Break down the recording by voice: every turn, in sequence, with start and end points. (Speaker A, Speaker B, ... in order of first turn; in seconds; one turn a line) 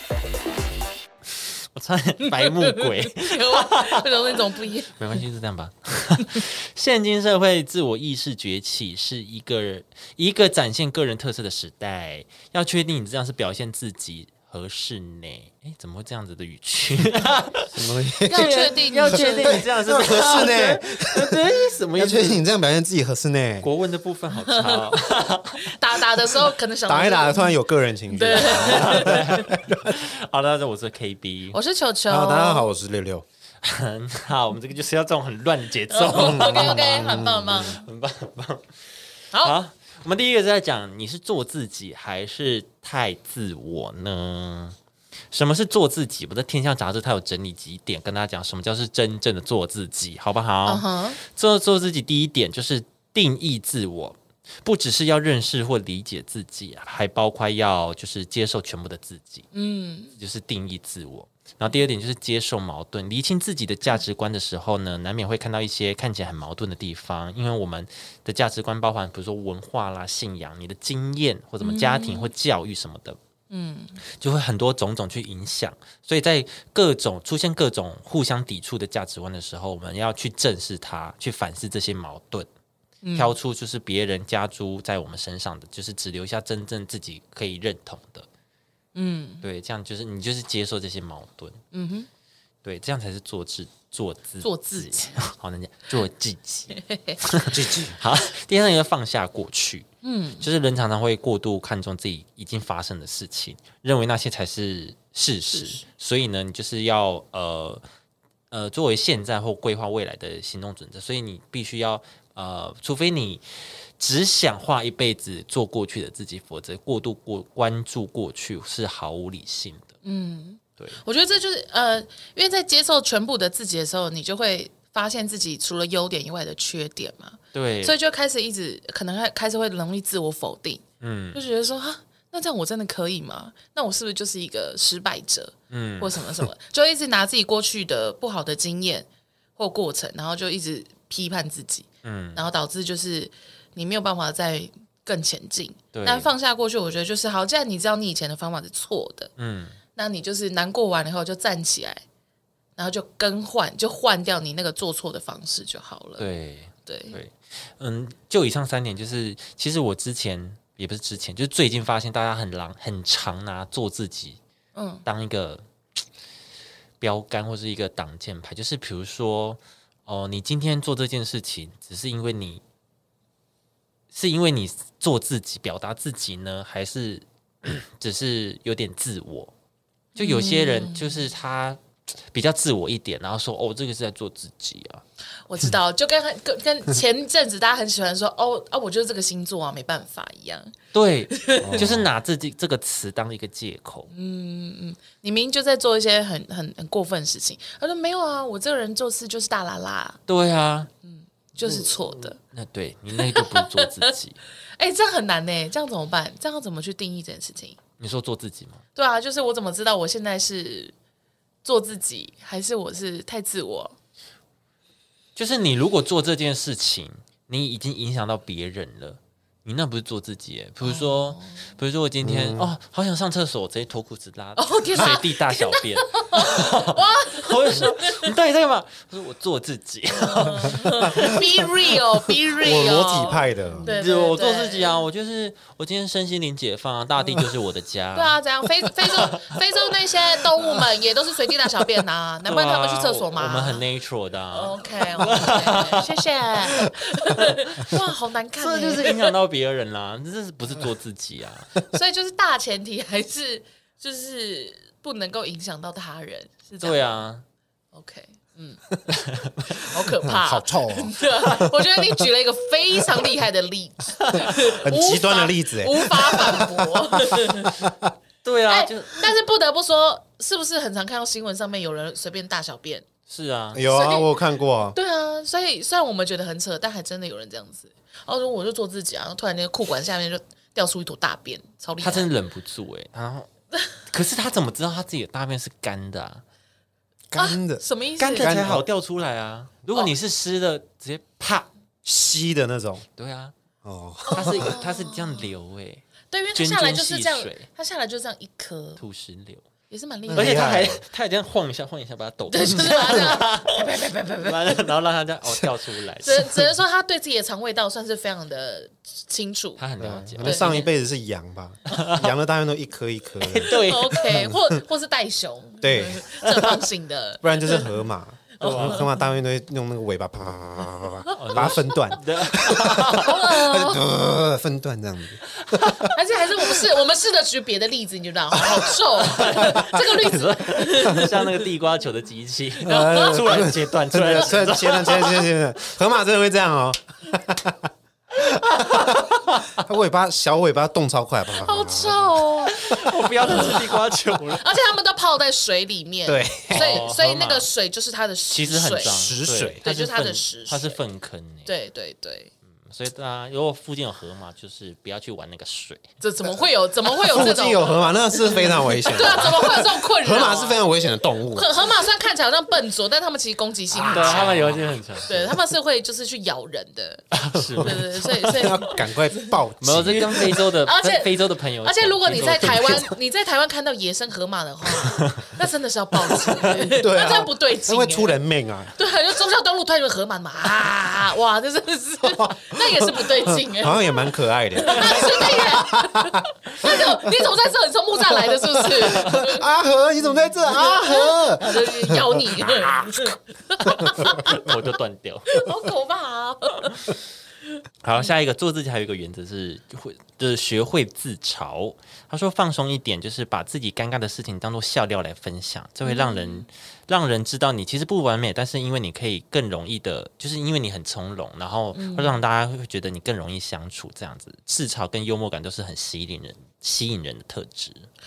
Speaker A: 1.6-22.4
Speaker B: 2.2-5.2
Speaker C: 17.7-23.7
Speaker B: 18.2-19.6
Speaker A: 23.6-25.7
Speaker B: 24.5-27.6
Speaker C: 26.9-30.0
Speaker B: 28.1-29.5
Speaker A: 28.4-31.6
Speaker B: 31.5-32.7
Speaker C: 32.1-33.2
Speaker A: 33.6-38.7
Speaker B: 35.9-37.9
Speaker C: 36.1-37.7
Speaker A: 39.4-44.8
Speaker A: 45.3-59.5
Speaker B: 50.7-51.2
Speaker B: 59.5-60.1
Speaker A: 60.2-73.2
Speaker B: 71.6-72.3
Speaker B: 73.5-74.0
Speaker A: 74.2-82.5
Speaker B: 83.0-83.4
Speaker A: 83.2-88.3
Speaker B: 89.0-89.4
Speaker A: 89.4-91.6
Speaker B: 91.7-92.1
Speaker A: 92.6-99.9
Speaker B: 94.4-95.2
Speaker B: 96.7-97.2
Speaker C: 97.5-98.0
Speaker B: 100.0-100.5
Speaker A: 100.4-107.8
Speaker B: 105.5-105.8
Speaker A: 108.5-119.9
Speaker B: 120.0-130.8
Speaker A: 127.5-128.0
Speaker A: 131.0-131.4
Speaker B: 131.3-139.1
Speaker A: 135.7-136.2
Speaker B: 139.6-149.3
Speaker A: 142.0-142.5
Speaker A: 145.9-146.3
Speaker A: 149.4-149.8
Speaker B: 149.9-152.0
Speaker B: 152.8-156.3
Speaker A: 156.2-164.4
Speaker B: 156.9-157.2
Speaker B: 164.8-165.1
Speaker A: 165.1-165.6
Speaker A: 167.0-172.6
Speaker A: 174.1-179.5
Speaker B: 180.2-181.2
Speaker A: 180.2-185.0
Speaker B: 185.5-190.7
Speaker A: 190.9-194.1
Speaker B: 191.3-191.9
Speaker C: 191.6-192.1
Speaker B: 194.1-200.2
Speaker A: 200.3-200.9
Speaker B: 201.0-202.4
Speaker A: 201.7-204.4
Speaker B: 203.1-204.1
Speaker B: 204.8-207.8
Speaker A: 208.0-208.8
Speaker B: 209.0-210.9
Speaker B: 211.6-214.0
Speaker A: 215.4-231.6
Speaker B: 220.8-221.7
Speaker C: 222.2-222.7
Speaker B: 224.6-228.3
Speaker B: 230.2-235.0
Speaker C: 232.6-233.9
Speaker A: 233.9-239.6
Speaker B: 238.1-243.8
Speaker A: 242.4-246.2
Speaker B: 244.5-249.3
Speaker A: 246.8-248.0
Speaker A: 248.6-251.7
Speaker B: 251.9-257.2
Speaker A: 256.8-257.4
Speaker B: 257.9-267.8
Speaker C: 259.7-262.1
Speaker A: 264.3-264.6
Speaker C: 264.6-268.1
Speaker A: 268.4-269.3
Speaker B: 268.7-273.1
Speaker A: 273.3-273.8
Speaker C: 273.7-275.0
Speaker B: 273.9-274.4
Speaker B: 274.9-282.3
Speaker A: 282.0-283.5
Speaker A: 284.0-286.4
Speaker C: 287.3-287.8
Speaker B: 287.4-288.7
Speaker A: 288.2-291.7
Speaker C: 288.3-288.8
Speaker C: 292.1-293.1
Speaker A: 293.2-293.5
Speaker C: 293.8-294.8
Speaker B: 294.3-295.5
Speaker A: 294.3-297.7
Speaker B: 296.3-299.0
Speaker A: 299.0-299.6
Speaker B: 299.9-300.9
Speaker C: 300.3-301.0
Speaker A: 300.4-306.5
Speaker B: 302.5-304.8
Speaker B: 306.2-309.8
Speaker A: 309.8-310.9
Speaker C: 310.0-314.8
Speaker B: 310.4-310.9
Speaker A: 311.9-312.3
Speaker A: 313.4-314.3
Speaker B: 313.7-318.0
Speaker C: 315.8-316.6
Speaker C: 317.4-326.1
Speaker B: 318.6-319.0
Speaker A: 318.6-319.1
Speaker B: 321.3-321.6
Speaker A: 321.4-323.4
Speaker B: 322.8-324.1
Speaker A: 325.8-326.1
Speaker B: 326.1-331.6
Speaker A: 329.2-335.5
Speaker B: 332.8-333.4
Speaker C: 332.8-343.0
Speaker A: 338.5-339.8
Speaker B: 341.6-342.8
Speaker A: 342.7-344.6
Speaker B: 343.4-343.7
Speaker C: 343.5-343.8
Speaker B: 344.6-349.1
Speaker C: 346.3-347.0
Speaker A: 346.7-347.7
Speaker A: 348.5-351.7
Speaker C: 349.0-349.8
Speaker B: 349.8-351.0
Speaker B: 351.7-352.5
Speaker A: 352.8-356.1
Speaker B: 356.2-378.4
Speaker C: 357.3-361.7
Speaker A: 364.0-365.3
Speaker C: 364.1-365.5
Speaker A: 367.3-368.5
Speaker C: 367.7-370.5
Speaker A: 369.8-373.1
Speaker A: 375.1-375.4
Speaker A: 376.4-376.8
Speaker C: 376.8-378.9
Speaker B: 378.9-389.7
Speaker C: 382.3-387.3
Speaker A: 384.9-385.6
Speaker C: 388.3-393.3
Speaker A: 389.0-389.4
Speaker B: 390.5-394.8
Speaker C: 394.0-394.5
Speaker A: 394.0-395.6
Speaker B: 395.5-397.0
Speaker A: 398.0-418.1
Speaker B: 406.0-406.7
Speaker B: 411.9-412.4